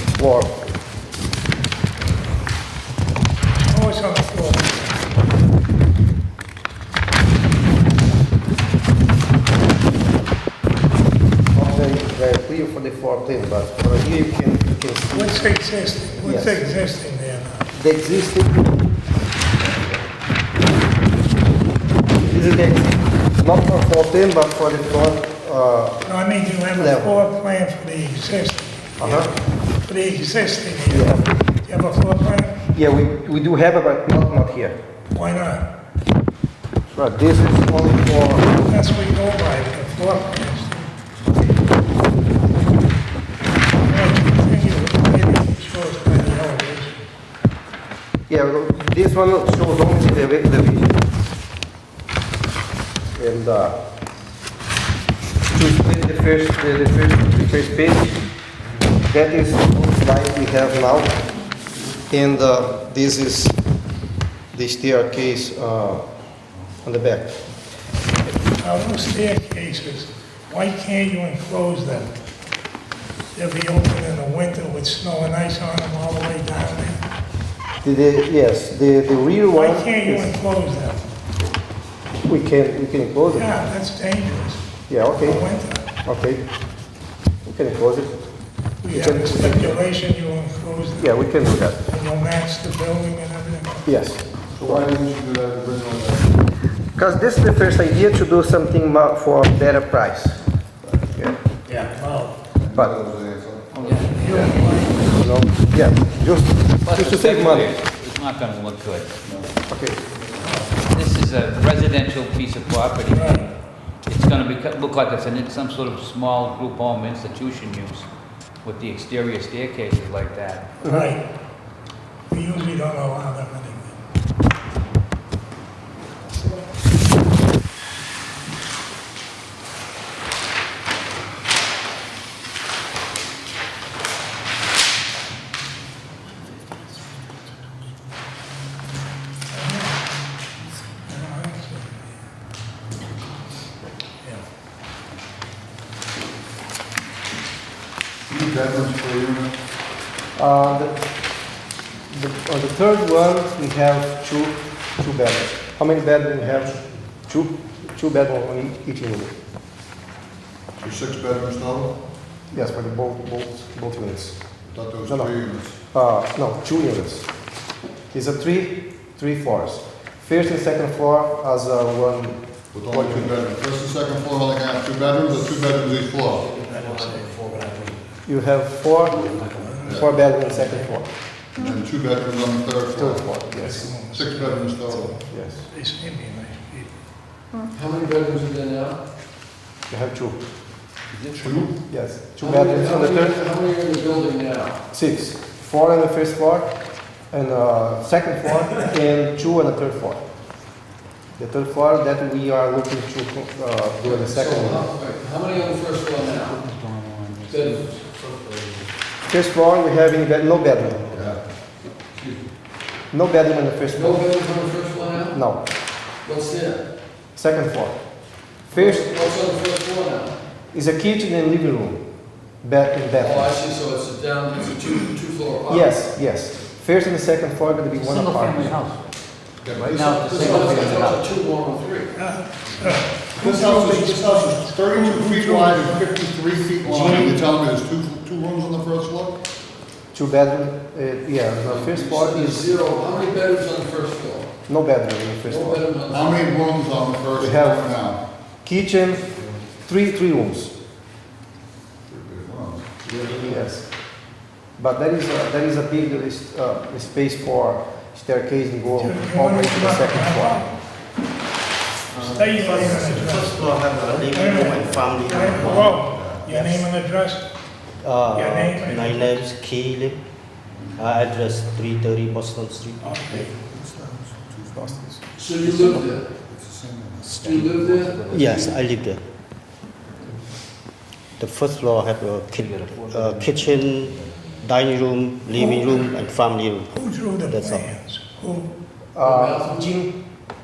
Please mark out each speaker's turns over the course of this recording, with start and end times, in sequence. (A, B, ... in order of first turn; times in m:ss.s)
0:00.1-0:00.6 A
0:03.5-0:05.1 B
0:11.5-0:15.5 A
0:15.1-0:17.7 B
0:16.2-0:16.6 A
0:17.7-0:18.8 A
0:19.6-0:20.0 A
0:22.2-0:26.0 A
0:26.0-0:29.2 B
0:26.7-0:27.2 A
0:29.0-0:29.3 A
0:29.8-0:32.7 B
0:30.9-0:31.3 A
0:32.7-0:34.8 A
0:35.1-0:35.7 B
0:36.9-0:38.5 A
0:38.6-0:40.9 B
0:43.8-0:47.0 B
0:48.3-0:51.0 A
0:53.1-0:53.8 A
0:55.5-0:58.2 A
0:59.0-1:01.2 A
1:02.1-1:03.6 A
1:04.5-1:06.0 A
1:06.8-1:07.4 A
1:08.6-1:12.1 B
1:13.3-1:17.0 B
1:17.8-1:20.4 A
1:19.5-1:21.1 B
1:22.2-1:23.5 A
1:23.3-1:24.6 B
1:24.9-1:25.4 A
1:25.2-1:25.9 B
1:26.0-1:26.4 A
1:27.4-1:28.2 A
1:28.8-1:31.2 B
1:28.9-1:29.8 A
1:31.0-1:31.8 A
1:31.8-1:34.0 B
1:33.8-1:34.8 A
1:34.5-1:36.4 C
1:36.9-1:40.4 A
1:41.7-1:42.4 B
1:42.6-1:44.0 C
1:43.8-1:44.4 D
1:43.9-1:45.3 B
1:44.2-1:47.7 A
1:46.8-1:49.1 D
1:49.2-1:50.7 C
1:49.7-1:50.0 A
1:50.8-1:53.4 D
1:53.1-1:53.5 B
1:54.0-1:58.1 D
1:58.6-2:00.7 D
2:00.8-2:01.1 A
2:00.8-2:01.2 B
2:02.3-2:03.9 B
2:19.5-2:20.0 B
2:21.0-2:22.1 B
2:28.3-2:29.5 C
2:30.4-2:31.0 A
2:32.1-2:39.3 A
2:40.8-2:42.0 C
2:42.5-2:44.4 A
2:44.7-2:45.8 C
2:45.9-2:47.3 A
2:48.1-2:53.4 A
2:52.7-2:56.5 C
2:56.4-2:58.0 E
2:56.7-2:57.6 B
2:58.2-3:01.1 A
2:59.3-3:00.1 C
2:59.5-3:00.0 B
3:01.6-3:03.4 C
3:02.9-3:03.9 A
3:03.5-3:06.9 B
3:04.0-3:05.1 C
3:04.9-3:05.6 A
3:07.7-3:09.0 E
3:09.9-3:10.4 A
3:11.1-3:11.7 D
3:11.4-3:11.7 C
3:11.9-3:13.4 A
3:12.4-3:14.8 E
3:14.9-3:16.7 A
3:17.3-3:20.2 A
3:21.4-3:24.9 A
3:24.0-3:26.6 E
3:26.2-3:27.9 D
3:27.5-3:28.6 E
3:29.3-3:31.0 A
3:32.1-3:32.4 E
3:33.1-3:34.3 A
3:33.9-3:35.4 E
3:35.3-3:35.6 A
3:36.2-3:36.8 E
3:37.3-3:38.0 A
3:38.7-3:39.1 A
3:38.7-3:40.4 E
3:40.7-3:42.0 A
3:42.6-3:43.6 A
3:43.2-3:45.9 E
3:45.7-3:48.8 A
3:48.0-3:49.0 D
3:49.6-3:51.1 C
3:49.7-3:51.2 D
3:50.4-3:52.2 E
3:52.1-3:56.1 B
3:53.3-3:59.4 C
4:00.1-4:02.7 A
4:01.7-4:04.5 E
4:04.7-4:05.8 A
4:05.4-4:06.4 E
4:06.1-4:08.2 C
4:07.4-4:07.9 A
4:08.6-4:09.2 A
4:09.8-4:10.7 A
4:12.1-4:13.3 C
4:13.4-4:13.9 A
4:14.8-4:20.6 A
4:19.0-4:20.7 B
4:22.2-4:26.0 F
4:22.2-4:22.7 D
4:22.3-4:27.5 B
4:26.1-4:26.4 C
4:26.5-4:26.8 A
4:28.0-4:30.2 F
4:28.3-4:29.2 B
4:31.0-4:33.2 F
4:33.1-4:33.4 B
4:33.2-4:35.0 C
4:34.7-4:36.0 A
4:35.3-4:36.3 E
4:36.4-4:37.4 C
4:37.3-4:38.7 D
4:37.4-4:38.7 E
4:38.3-4:39.2 F
4:41.4-4:47.9 F
4:42.6-4:43.8 D
4:45.6-4:46.1 B
4:46.9-4:48.7 B
4:49.1-4:50.2 A
4:49.2-4:49.9 E